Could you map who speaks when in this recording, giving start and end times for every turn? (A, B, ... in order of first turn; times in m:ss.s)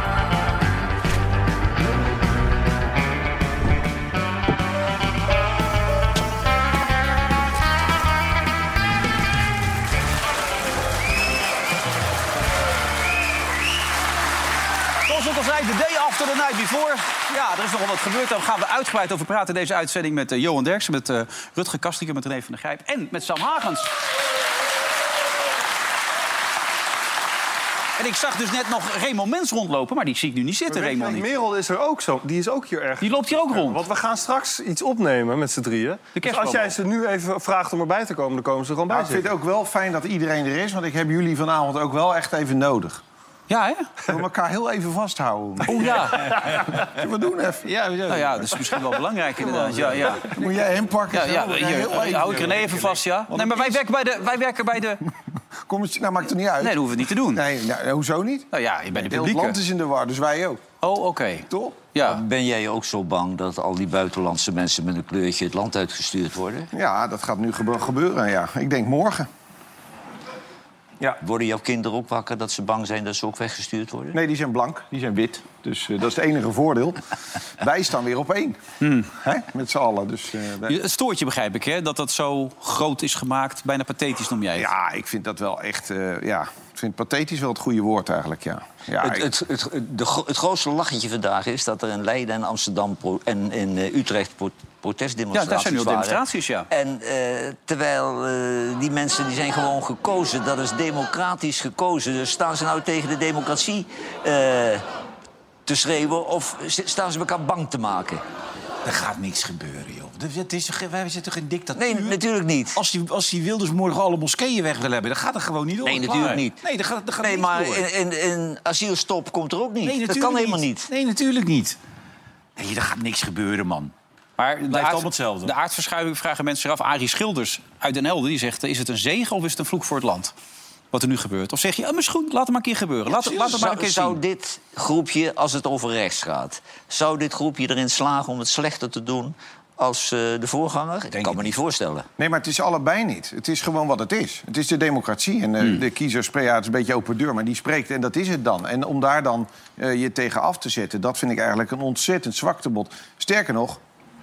0:15.1-0:23.9 A
0:28.0-0:31.3 A
0:30.7-0:39.3 B
0:33.0-0:33.8 A
0:36.2-0:36.8 A
0:38.9-0:43.0 C
0:43.5-0:43.9 A
0:44.1-0:47.7 C
0:45.7-0:46.4 A
0:47.6-0:48.6 D
0:48.1-0:50.3 A
0:49.4-0:50.2 D
0:50.2-0:53.8 C
0:51.1-0:55.0 A
0:55.7-1:00.6 C
0:56.6-0:57.4 A
0:58.5-0:59.6 A
1:00.8-1:02.2 A
1:01.5-1:01.8 C
1:02.0-1:06.7 E
1:06.7-1:09.3 C
1:11.2-1:14.2 E
1:14.1-1:17.0 C
1:17.6-1:18.6 C
1:18.8-1:19.1 A
1:19.1-1:20.8 C
1:20.7-1:24.7 A
1:24.6-1:29.2 C
1:29.0-1:44.8 E
1:35.3-1:36.7 A
1:45.7-1:48.2 E
1:48.8-1:52.2 D
1:51.8-1:52.8 E
1:52.7-1:57.9 D
1:55.8-1:56.6 E
1:57.2-2:00.9 E
1:59.8-2:01.8 D
2:02.6-2:03.9 D
2:04.4-2:10.3 A
2:04.6-2:05.5 D
2:10.9-2:14.2 A
2:13.1-2:22.1 E
2:21.1-2:21.5 D
2:22.2-2:33.8 C